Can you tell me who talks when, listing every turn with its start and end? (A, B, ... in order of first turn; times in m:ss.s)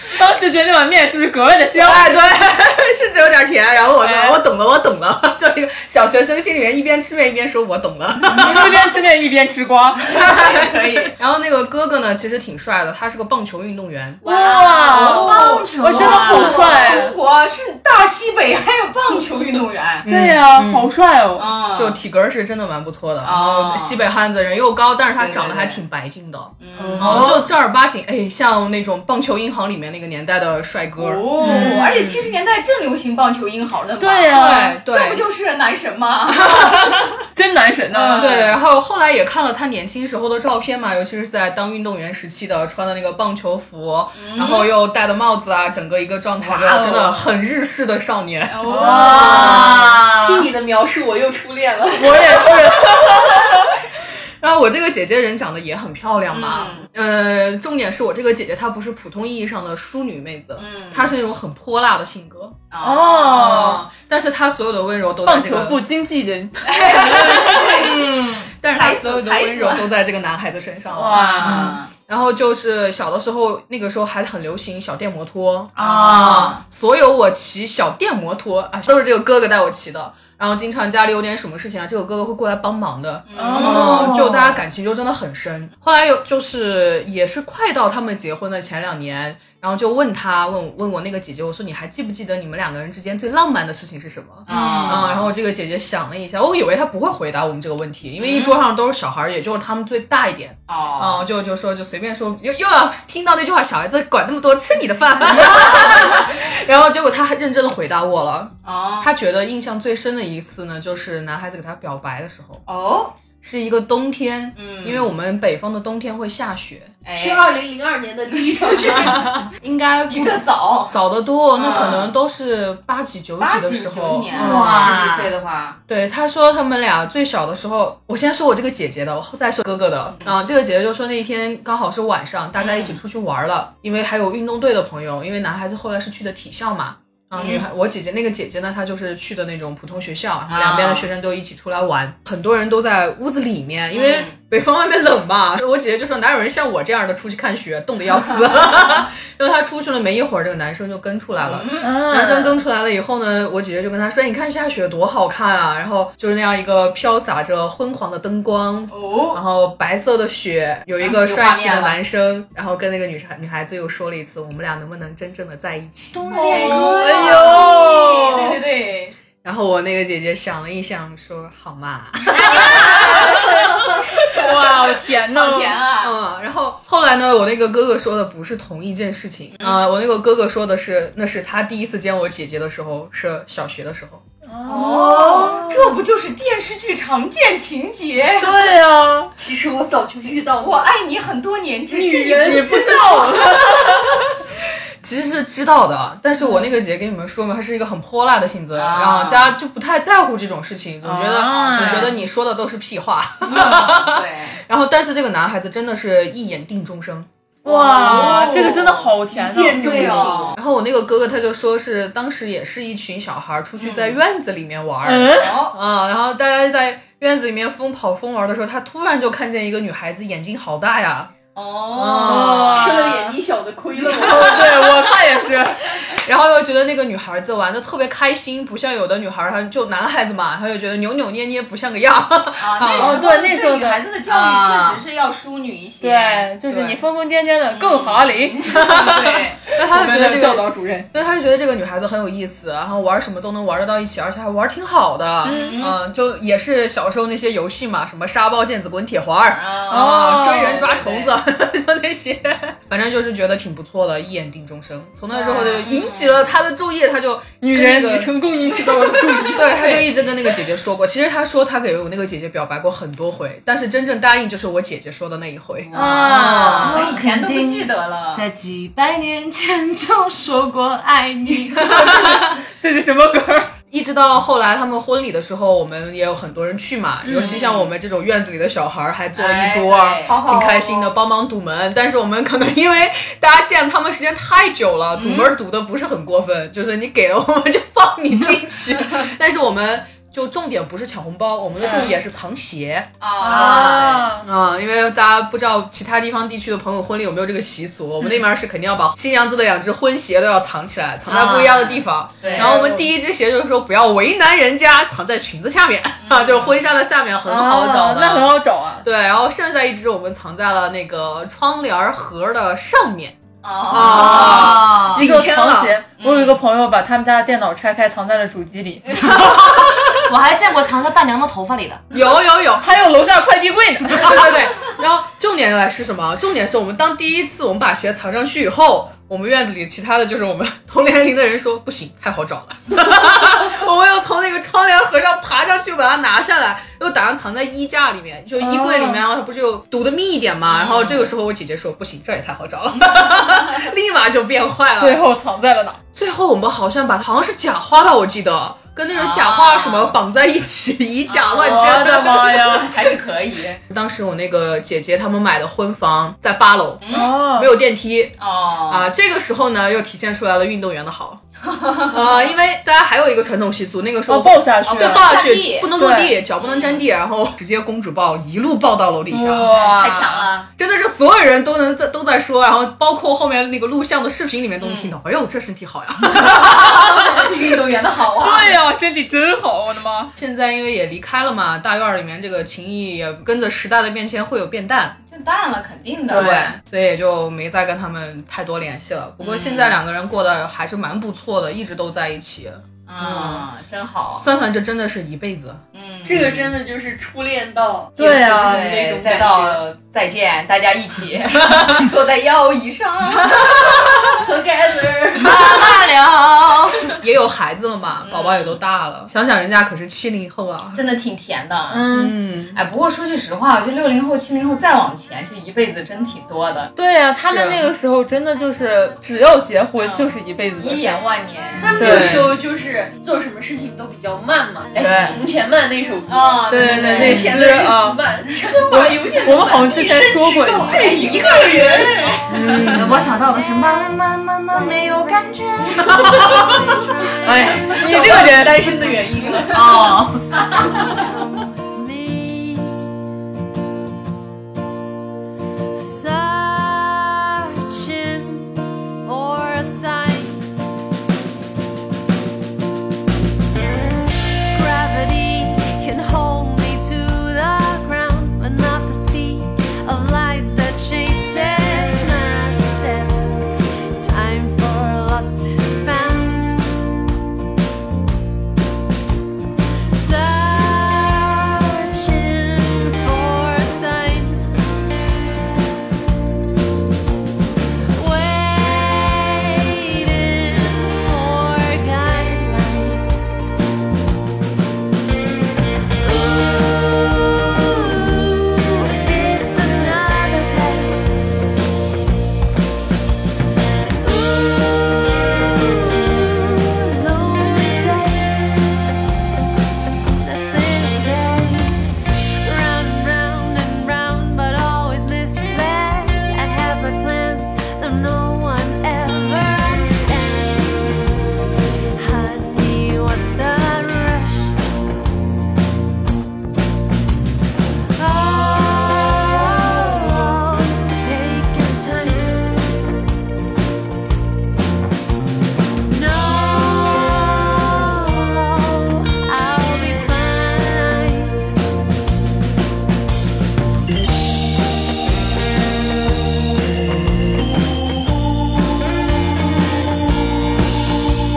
0:00.1-0:02.3 A
0:01.8-0:08.7 B
0:04.0-0:04.4 A
0:08.3-0:10.2 A
0:10.1-0:14.2 B
0:10.3-0:11.1 C
0:14.2-0:20.1 C
0:14.2-0:17.2 A
0:14.9-0:16.7 D
0:20.0-0:20.9 B
0:20.1-0:21.5 A
0:21.4-0:22.0 C
0:21.7-0:31.8 B
0:23.2-0:24.0 C
0:25.2-0:25.8 C
0:26.6-0:27.4 C
0:26.8-0:27.4 D
0:31.0-0:37.0 C
0:31.4-0:32.2 A
0:34.0-0:34.8 A
0:34.3-0:35.3 B
0:37.4-0:38.4 A
0:37.9-0:38.5 C
0:38.2-0:50.0 B
0:44.2-0:44.7 C
0:46.4-0:47.3 C
0:48.5-0:50.0 C
0:48.6-0:49.8 A
0:49.2-0:49.6 E
0:49.4-0:50.4 D
0:50.2-0:52.6 E
0:52.0-0:53.4 A
0:54.4-1:02.6 B
0:56.3-0:56.9 C
1:00.6-1:01.1 C
1:02.7-1:03.8 C
1:02.8-1:03.8 A
1:03.3-1:05.8 B
1:05.3-1:07.7 A
1:06.7-1:08.1 C
1:06.8-1:08.0 B
1:07.8-1:08.5 D
1:08.6-1:52.6 B
1:08.7-1:09.9 C
1:10.9-1:11.8 A
1:11.1-1:11.9 C
1:15.8-1:16.6 D
1:15.8-1:16.6 C
1:23.3-1:24.1 C
1:23.4-1:24.1 A
1:23.6-1:24.6 D
1:34.5-1:35.3 C
1:34.6-1:34.9 D
1:38.2-1:38.6 C
1:40.7-1:41.3 C
1:45.5-1:45.8 C
1:48.6-1:49.1 C
1:52.7-1:53.2 C
1:53.4-1:57.0 B
1:54.6-1:55.1 C
1:57.0-1:57.5 C
1:57.1-1:59.4 E
1:58.5-1:59.1 C
1:59.0-2:05.0 B
2:00.1-2:01.0 C
2:01.6-2:02.2 C
2:03.4-2:05.8 C
2:04.3-2:05.3 D
2:05.9-2:47.0 B
2:12.6-2:13.0 C
2:17.4-2:17.7 C
2:20.5-2:21.1 C
2:23.9-2:24.4 C
2:31.4-2:31.9 C
2:31.8-2:32.6 A
2:38.9-2:39.4 C
2:41.0-2:42.0 C
2:46.1-2:47.6 D
2:46.3-2:49.2 C
2:46.4-2:48.6 A
2:49.4-2:53.5 B
2:52.3-2:55.8 A
2:52.4-2:54.5 C
2:55.3-2:56.2 C
2:56.0-3:04.2 B
2:59.6-2:59.8 C
3:04.5-3:06.0 A
3:04.7-3:08.6 C
3:05.1-3:05.5 D
3:08.2-3:09.3 A
3:09.4-3:10.9 E
3:10.6-3:13.7 C
3:11.9-3:13.8 E
3:12.4-3:14.0 A
3:15.0-3:27.3 B
3:16.4-3:16.6 A
3:18.7-3:19.6 C
3:21.0-3:22.2 A
3:21.5-3:22.2 C
3:23.4-3:24.6 C
3:27.6-3:30.4 A
3:27.7-3:28.6 E
3:27.7-3:29.2 C
3:29.3-3:30.6 E
3:29.8-3:30.6 C
3:30.5-3:43.0 B
3:33.8-3:34.2 C
3:35.1-3:35.5 A
3:35.3-3:35.8 C
3:41.6-3:43.0 C
3:42.2-3:43.4 A
3:42.6-3:45.1 E
3:44.1-3:45.9 A
3:46.2-3:53.2 B
3:52.6-3:57.0 C
3:52.9-3:54.0 A
3:54.3-3:55.0 B
3:56.0-4:01.1 A
3:57.7-3:59.6 C
3:58.7-4:18.3 B
4:05.4-4:05.8 A
4:05.4-4:06.0 C
4:09.5-4:11.4 C
4:09.9-4:10.9 A
4:15.3-4:15.9 A
4:15.6-4:16.5 C
4:17.6-4:20.1 A
4:19.3-4:27.1 B
4:25.8-4:32.1 D
4:25.9-4:27.0 A
4:26.0-4:28.4 C
4:31.8-4:33.7 A
4:33.9-4:53.1 B
4:37.2-4:37.6 A
4:37.4-4:37.9 C
4:39.4-4:41.1 C
4:45.2-4:45.6 C
4:51.8-4:52.2 C
4:51.8-4:52.2 A
4:53.2-4:54.3 C
4:53.4-4:54.5 A
4:54.4-5:16.0 B
5:01.3-5:01.8 D
5:01.7-5:02.7 C
5:02.5-5:03.1 A
5:06.2-5:06.8 C
5:07.5-5:09.1 A
5:13.6-5:14.8 C
5:13.9-5:15.3 D
5:14.2-5:19.4 A
5:16.2-5:16.6 C
5:19.4-5:22.0 D
5:22.1-5:22.9 B
5:22.8-5:24.5 A
5:24.1-5:45.2 B
5:38.6-5:39.2 A
5:40.7-5:41.3 C
5:45.0-5:46.0 A
5:46.2-5:52.6 B
5:49.1-5:50.2 C
5:51.3-5:53.8 C
5:51.6-5:53.0 A
5:53.9-5:58.4 B
5:57.0-5:57.3 C
5:57.1-5:57.7 A
5:58.4-5:59.1 C
5:58.9-6:01.4 B
6:01.6-6:02.4 C
6:02.1-6:09.7 B
6:04.3-6:05.4 A
6:04.8-6:05.9 C
6:06.0-6:06.4 A
6:06.6-6:07.0 C
6:09.3-6:10.5 A
6:09.6-6:10.7 C
6:10.8-6:17.5 B
6:14.8-6:15.2 C
6:16.4-6:18.8 C
6:18.4-6:20.3 A
6:20.4-6:25.2 B
6:25.3-6:26.6 C
6:26.3-6:26.8 A
6:26.3-6:33.6 B
6:29.4-6:30.0 C
6:33.1-6:34.5 C
6:34.4-6:35.8 B
6:35.9-6:36.7 C
6:36.2-6:39.8 E
6:38.2-6:38.9 A
6:38.4-6:44.4 C
6:44.4-6:45.7 E
6:45.4-6:47.1 D
6:47.2-6:51.0 B
6:48.2-6:48.8 C
6:50.9-6:52.1 C
6:51.9-6:52.4 A
6:52.1-6:52.8 B
6:52.7-6:56.9 C
6:57.0-7:01.2 A
6:57.5-6:57.9 B
7:00.0-7:02.2 C
7:01.8-7:12.4 E
7:02.0-7:02.6 B
7:02.0-7:02.4 A
7:05.0-7:05.4 A
7:06.3-7:07.6 C
7:06.7-7:08.2 A
7:07.2-7:07.5 B
7:08.6-7:13.0 C
7:08.9-7:11.3 A
7:12.5-7:13.3 B
7:12.6-7:12.9 A
7:12.8-7:16.7 D
7:13.2-7:19.4 F
7:17.4-7:18.9 A
7:17.9-7:20.1 E
7:19.4-7:19.8 C
7:19.7-7:20.4 D
7:20.5-7:21.3 C
7:20.9-7:23.1 F
7:26.0-7:30.6 F
7:34.6-7:46.8 F
7:50.1-7:54.9 F
7:58.1-8:03.3 F
8:06.2-8:11.3 F
8:14.2-8:19.0 F
8:20.4-8:22.1 F
8:22.6-8:31.3 F
8:32.2-8:34.8 F
8:38.2-8:42.7 F
8:46.1-8:51.6 F